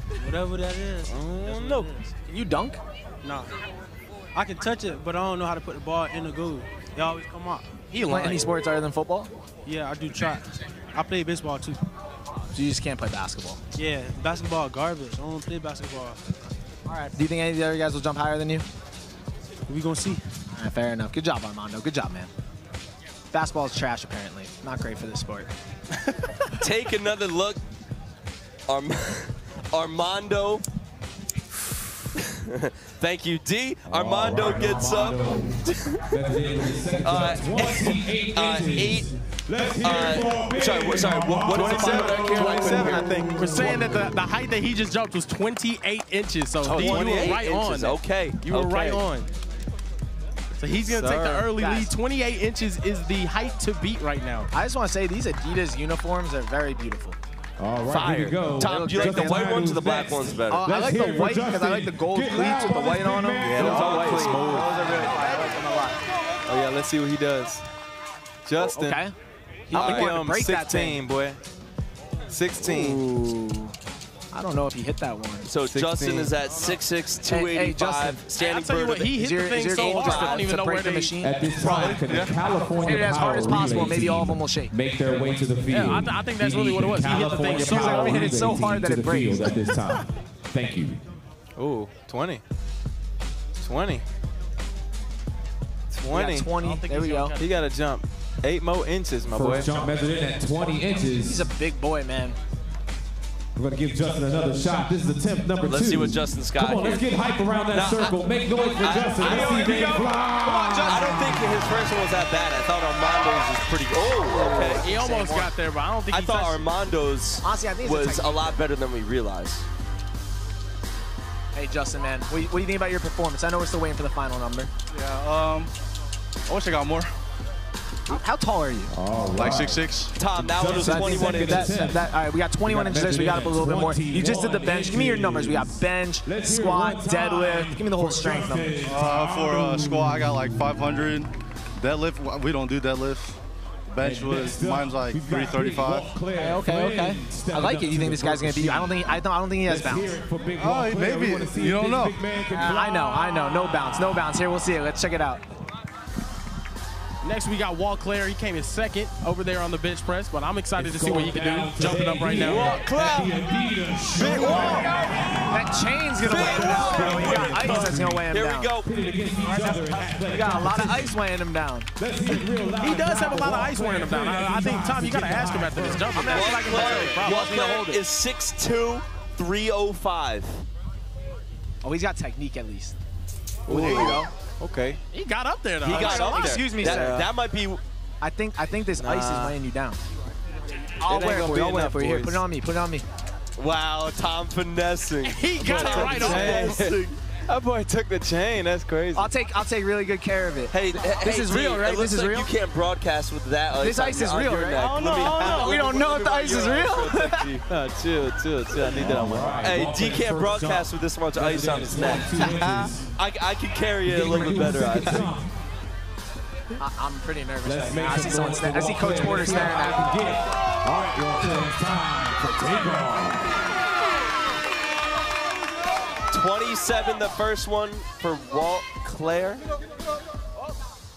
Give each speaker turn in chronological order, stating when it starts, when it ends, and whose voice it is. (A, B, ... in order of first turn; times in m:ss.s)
0:00.2-0:02.1 A
0:01.1-0:01.9 B
0:02.3-0:02.8 C
0:03.2-0:03.5 A
0:04.3-0:07.7 A
0:07.9-0:08.4 D
0:08.0-0:09.3 C
0:09.6-0:11.8 A
0:12.5-0:13.6 C
0:13.7-0:16.2 A
0:17.1-0:18.6 C
0:19.7-0:20.2 A
0:20.5-0:22.3 C
0:23.3-0:25.5 C
0:26.6-0:27.6 E
0:28.7-0:30.6 E
0:32.4-0:36.0 E
0:33.9-0:44.1 F
0:37.0-0:39.1 E
0:39.8-0:43.2 E
0:41.5-0:43.7 B
0:43.4-0:49.3 D
0:46.6-0:47.3 B
0:46.6-0:49.0 E
0:50.6-0:54.5 D
0:50.7-0:51.5 B
0:51.6-0:51.9 C
0:54.5-0:57.2 C
0:57.6-1:05.0 F
0:57.9-1:00.7 E
0:58.6-0:59.7 C
1:00.5-1:06.0 C
1:00.7-1:01.0 B
1:03.4-1:04.9 B
1:03.6-1:04.5 E
1:06.5-1:07.6 B
1:08.4-1:09.0 B
1:08.6-1:09.1 C
1:09.7-1:11.0 C
1:09.7-1:11.4 B
1:09.7-1:10.0 E
1:12.3-1:13.0 B
1:12.6-1:13.7 C
1:14.3-1:15.5 C
1:15.4-1:19.1 E
1:15.7-1:16.3 B
1:17.3-1:18.2 C
1:18.4-1:21.3 D
1:19.1-1:21.3 C
1:19.7-1:20.5 E
1:21.2-1:31.0 F
1:21.6-1:22.3 G
1:22.8-1:24.7 C
1:25.7-1:28.4 D
1:27.5-1:29.6 C
1:31.6-1:32.4 B
1:33.6-1:34.0 B
1:35.9-1:36.5 B
1:36.1-1:37.4 C
1:36.6-1:37.4 D
1:37.4-1:39.7 B
1:39.3-1:41.4 F
1:41.2-1:42.4 C
1:43.5-1:51.4 F
1:45.6-1:47.0 E
1:47.7-1:48.2 E
1:48.8-1:50.1 E
1:49.3-1:51.5 C
1:50.8-1:54.9 E
1:54.3-1:55.5 C
1:54.8-1:56.6 D
1:56.1-1:59.6 E
1:57.4-1:58.6 C
2:01.5-2:04.7 C
2:04.9-2:05.7 G
2:06.5-2:07.1 G
2:08.1-2:08.9 C
2:08.9-2:12.0 F
2:09.3-2:10.1 G
2:10.2-2:11.7 E
2:10.7-2:18.8 C
2:12.6-2:20.7 F
2:18.8-2:21.3 G
2:21.8-2:23.4 G
2:23.9-2:26.1 G
2:24.0-2:34.2 F
2:26.3-2:30.1 C
2:30.6-2:32.2 G
2:32.5-2:35.4 C
2:37.2-2:42.8 D
2:40.8-2:48.2 F
2:42.4-2:43.4 B
2:44.2-2:44.9 C
2:44.2-2:44.9 G
2:44.3-2:44.5 B
2:45.5-2:48.7 C
2:46.2-2:48.9 E
2:48.8-2:51.2 F
2:50.2-2:51.9 C
2:52.0-2:56.2 F
2:52.8-2:57.5 D
2:56.1-2:58.0 C
2:56.2-3:00.6 E
3:01.8-3:02.9 C
3:03.7-3:04.3 C
3:03.7-3:05.0 B
3:03.8-3:04.1 E
3:05.1-3:06.7 D
3:05.8-3:07.8 E
3:05.8-3:07.3 C
3:06.8-3:07.3 B
3:08.2-3:10.0 C
3:09.0-3:09.6 B
3:11.0-3:13.0 C
3:11.0-3:12.4 B
3:13.6-3:17.2 E
3:15.2-3:16.9 D
3:15.6-3:19.3 B
3:19.2-3:22.5 C
3:20.7-3:27.6 E
3:23.8-3:27.5 C
3:24.7-3:25.9 A
3:27.7-3:29.6 B
3:28.9-3:33.1 F
3:29.6-3:32.6 E
3:32.3-3:32.9 B
3:33.2-3:35.2 E
3:34.0-3:35.5 F
3:36.8-3:40.1 C
3:37.6-3:43.6 F
3:46.3-3:49.6 E